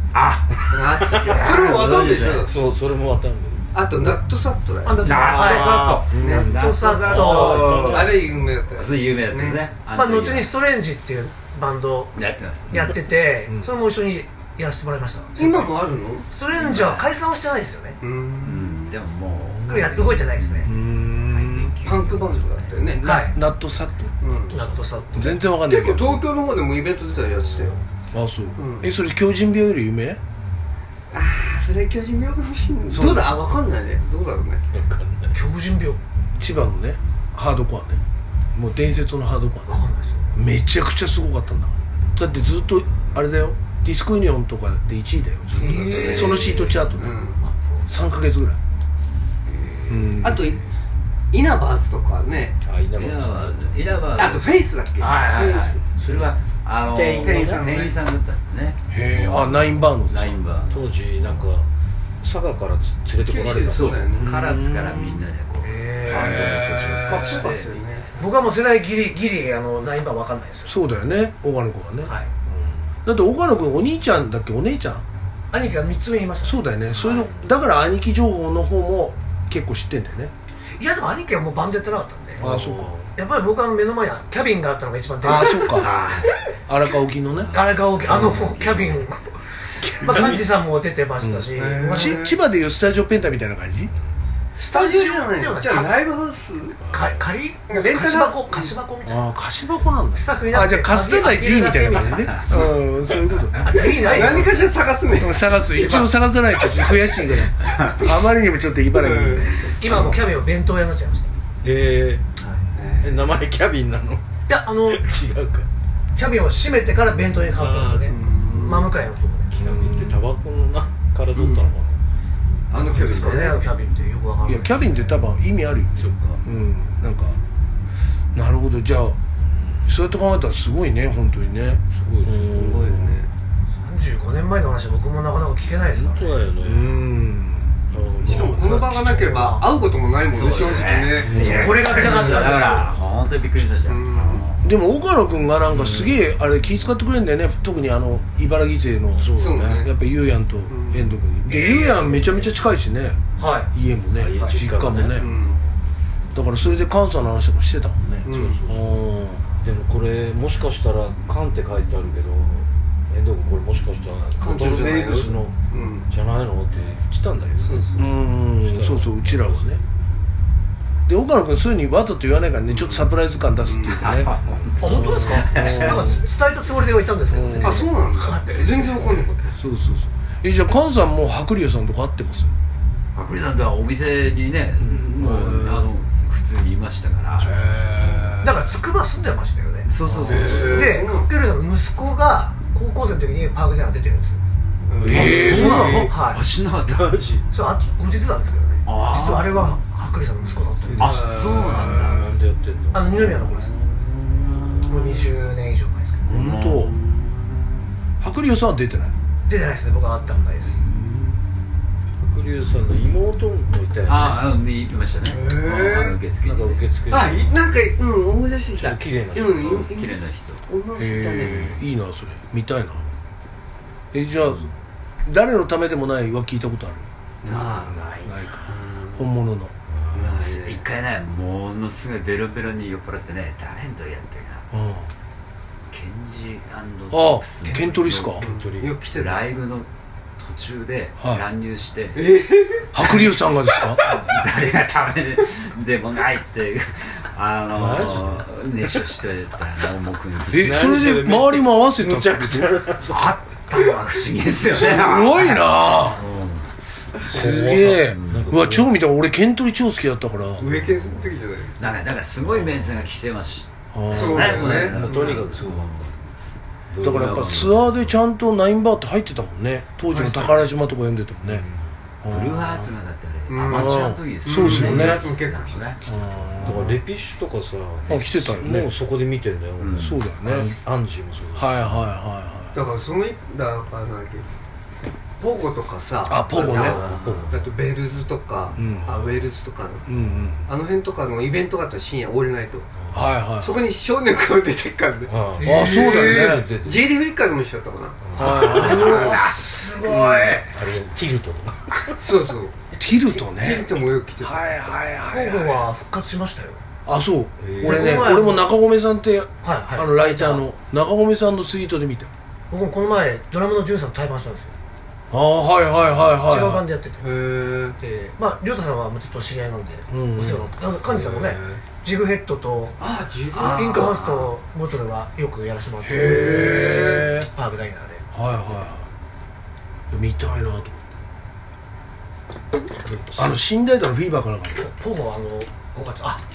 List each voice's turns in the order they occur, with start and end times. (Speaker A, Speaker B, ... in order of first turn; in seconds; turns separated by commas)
Speaker A: 0.1-2.3, Speaker B: 0.7-2.5, Speaker C: 0.9-3.7, Speaker B: 3.7-6.5, Speaker D: 4.8-7.8, Speaker A: 5.0-10.5, Speaker C: 5.5-6.0, Speaker E: 6.1-6.5, Speaker C: 7.0-8.5, Speaker B: 7.2-9.6, Speaker D: 9.9-12.2, Speaker A: 12.2-13.0, Speaker D: 12.7-18.0, Speaker B: 15.4-16.3, Speaker A: 16.5-17.1, Speaker B: 18.0-18.9, Speaker A: 18.4-22.9, Speaker D: 19.7-20.7, Speaker E: 20.7-21.7, Speaker B: 21.8-23.1, Speaker E: 23.0-24.1, Speaker D: 23.0-23.4, Speaker B: 24.2-24.8, Speaker D: 24.5-25.5, Speaker A: 24.5-24.8, Speaker E: 25.1-26.2, Speaker B: 25.6-27.8, Speaker E: 28.1-30.2, Speaker B: 28.6-28.9, Speaker B: 31.1-34.7, Speaker E: 32.9-33.4, Speaker C: 34.7-35.4, Speaker D: 35.3-36.0, Speaker E: 36.4-38.0, Speaker E: 38.5-39.8, Speaker D: 39.7-40.4, Speaker E: 40.4-47.2, Speaker B: 45.5-47.4, Speaker D: 45.5-46.5, Speaker A: 45.8-46.5, Speaker D: 47.4-47.9, Speaker E: 47.9-48.6, Speaker B: 49.5-50.6, Speaker E: 49.9-50.6, Speaker B: 51.3-52.6, Speaker C: 52.6-53.8, Speaker A: 53.0-61.5, Speaker B: 54.2-55.8, Speaker C: 56.9-57.7, Speaker B: 57.0-58.0, Speaker E: 58.9-60.4, Speaker C: 60.7-61.7, Speaker C: 62.2-64.1, Speaker B: 63.2-64.3, Speaker A: 63.7-68.0, Speaker E: 64.2-65.2, Speaker B: 65.6-68.3, Speaker E: 66.0-67.5, Speaker D: 68.2-70.8, Speaker E: 70.7-72.1, Speaker D: 72.0-72.3, Speaker E: 73.0-75.0, Speaker D: 75.5-76.6, Speaker E: 76.4-80.3, Speaker C: 76.9-77.5, Speaker D: 80.8-82.5, Speaker E: 82.4-83.0, Speaker C: 82.4-83.2, Speaker D: 83.2-85.9, Speaker E: 85.2-85.9, Speaker A: 85.7-86.3, Speaker E: 86.7-87.6, Speaker D: 87.5-92.2, Speaker A: 87.5-89.1, Speaker C: 89.8-90.5, Speaker E: 91.2-93.9, Speaker B: 91.5-92.3, Speaker D: 94.6-96.0, Speaker B: 94.6-96.8, Speaker C: 96.8-97.3, Speaker D: 96.9-99.3, Speaker B: 97.7-98.8, Speaker E: 99.0-104.5, Speaker D: 100.1-102.7, Speaker D: 103.6-104.7, Speaker B: 103.7-106.1, Speaker E: 105.2-109.6, Speaker A: 107.7-108.0, Speaker B: 108.9-110.2, Speaker D: 109.8-111.3, Speaker C: 111.6-112.2, Speaker D: 112.4-112.6, Speaker B: 112.7-113.3, Speaker C: 113.0-114.2, Speaker D: 114.5-115.1, Speaker C: 114.8-115.7, Speaker D: 116.2-119.5, Speaker C: 117.5-118.2, Speaker B: 118.1-119.0, Speaker C: 119.5-122.0, Speaker E: 119.6-120.2, Speaker B: 121.3-121.7, Speaker B: 122.7-123.8, Speaker D: 122.7-125.0, Speaker E: 124.5-127.4, Speaker C: 126.0-126.4, Speaker E: 128.3-129.2, Speaker C: 129.4-129.9, Speaker E: 129.9-133.1, Speaker C: 131.9-133.2, Speaker B: 132.5-133.3, Speaker D: 133.8-136.4, Speaker C: 135.9-137.0, Speaker E: 136.6-139.6, Speaker C: 137.9-138.8, Speaker B: 138.2-142.8, Speaker A: 140.3-144.7, Speaker C: 141.2-142.1, Speaker D: 141.4-143.0, Speaker B: 143.8-144.5, Speaker E: 144.6-153.2, Speaker C: 145.7-146.2, Speaker C: 149.2-149.9, Speaker B: 149.3-149.9, Speaker B: 150.7-151.1, Speaker D: 153.4-153.7, Speaker E: 153.7-155.3, Speaker C: 154.1-155.7, Speaker B: 155.1-155.6, Speaker E: 156.3-159.4, Speaker B: 158.2-158.6, Speaker C: 158.3-165.6, Speaker B: 164.4-166.1, Speaker C: 166.1-169.8, Speaker B: 167.6-168.2, Speaker E: 168.0-169.8, Speaker E: 171.1-176.2, Speaker B: 173.7-174.0, Speaker A: 173.9-176.2, Speaker C: 174.4-175.1, Speaker D: 174.8-179.2, Speaker E: 177.3-177.9, Speaker B: 177.6-179.6, Speaker E: 179.6-182.5, Speaker A: 183.2-188.4, Speaker E: 184.8-185.9, Speaker E: 187.4-188.8, Speaker D: 188.4-194.4, Speaker A: 189.9-191.0, Speaker C: 190.1-190.8, Speaker B: 190.3-191.3, Speaker E: 190.3-190.7, Speaker B: 194.9-196.1, Speaker C: 195.0-196.0, Speaker E: 195.0-196.1, Speaker A: 195.1-197.2, Speaker D: 196.0-196.4, Speaker C: 196.9-197.4, Speaker D: 197.5-201.3, Speaker A: 198.9-199.8, Speaker C: 200.8-203.4, Speaker A: 201.0-202.3, Speaker B: 201.1-201.6, Speaker E: 201.8-202.2, Speaker D: 202.9-203.8, Speaker A: 203.8-205.3, Speaker C: 204.3-204.9, Speaker D: 204.9-206.5, Speaker E: 206.2-207.0, Speaker A: 206.3-207.8, Speaker E: 208.2-209.2, Speaker D: 209.5-210.8, Speaker E: 210.9-211.3, Speaker C: 212.2-214.4, Speaker A: 214.1-216.8, Speaker B: 215.3-216.2, Speaker C: 216.4-217.6, Speaker B: 217.1-221.8, Speaker C: 218.8-219.9, Speaker A: 219.5-220.7, Speaker E: 221.0-223.0, Speaker E: 224.1-224.7, Speaker E: 225.3-227.1, Speaker B: 227.4-228.0, Speaker C: 227.5-228.3, Speaker E: 228.2-229.7, Speaker B: 228.7-229.3, Speaker C: 229.9-230.4, Speaker B: 230.1-230.8, Speaker A: 230.3-234.7, Speaker E: 234.7-235.1, Speaker A: 235.9-238.5, Speaker E: 237.1-238.5, Speaker C: 238.4-238.9, Speaker B: 238.4-239.5, Speaker A: 239.1-242.3, Speaker E: 241.2-241.4, Speaker B: 242.2-243.3, Speaker E: 242.9-244.1, Speaker A: 243.8-251.0, Speaker C: 247.7-248.5, Speaker E: 250.5-252.8, Speaker C: 250.6-253.3, Speaker A: 253.1-256.7, Speaker E: 254.8-256.2, Speaker E: 257.3-260.8, Speaker C: 257.3-259.0, Speaker A: 257.9-258.5, Speaker B: 260.6-261.8, Speaker A: 261.8-266.3, Speaker E: 263.9-264.7, Speaker B: 264.1-265.0, Speaker C: 264.4-265.9, Speaker C: 266.9-267.8, Speaker A: 267.0-267.9, Speaker E: 267.0-271.6, Speaker B: 270.1-270.7, Speaker C: 271.5-271.9, Speaker E: 272.2-272.9, Speaker A: 272.3-276.0, Speaker B: 273.5-275.9, Speaker E: 273.7-275.3, Speaker C: 274.9-275.1, Speaker E: 276.1-277.0, Speaker C: 276.6-281.9, Speaker E: 278.1-278.9, Speaker A: 279.8-280.2, Speaker E: 280.0-280.7, Speaker E: 281.6-282.8, Speaker B: 282.7-284.5, Speaker B: 285.4-290.1, Speaker E: 286.3-287.0, Speaker C: 286.5-287.7, Speaker E: 288.8-289.3, Speaker E: 290.1-290.6, Speaker B: 290.7-292.9, Speaker E: 293.1-293.8, Speaker B: 293.6-299.6, Speaker C: 295.3-297.0, Speaker D: 295.6-296.2, Speaker E: 295.6-296.7, Speaker C: 298.2-299.1, Speaker E: 298.4-299.5, Speaker D: 298.8-300.7, Speaker A: 299.1-299.6, Speaker C: 300.1-302.2, Speaker B: 302.2-302.8, Speaker E: 302.9-303.9, Speaker B: 303.5-304.9, Speaker E: 304.4-305.9, Speaker D: 305.2-306.8, Speaker E: 307.1-312.3, Speaker C: 307.6-308.4, Speaker D: 307.8-308.7, Speaker D: 309.6-310.6, Speaker D: 312.7-314.7, Speaker E: 315.3-316.9, Speaker D: 316.4-317.2, Speaker B: 317.2-318.0, Speaker D: 318.0-323.0, Speaker E: 320.1-320.7, Speaker B: 321.1-321.8, Speaker B: 323.0-324.5, Speaker D: 323.5-328.2, Speaker E: 326.0-327.5, Speaker E: 328.3-329.1, Speaker E: 330.1-331.1, Speaker C: 333.0-333.6, Speaker E: 333.4-334.9, Speaker D: 334.7-336.4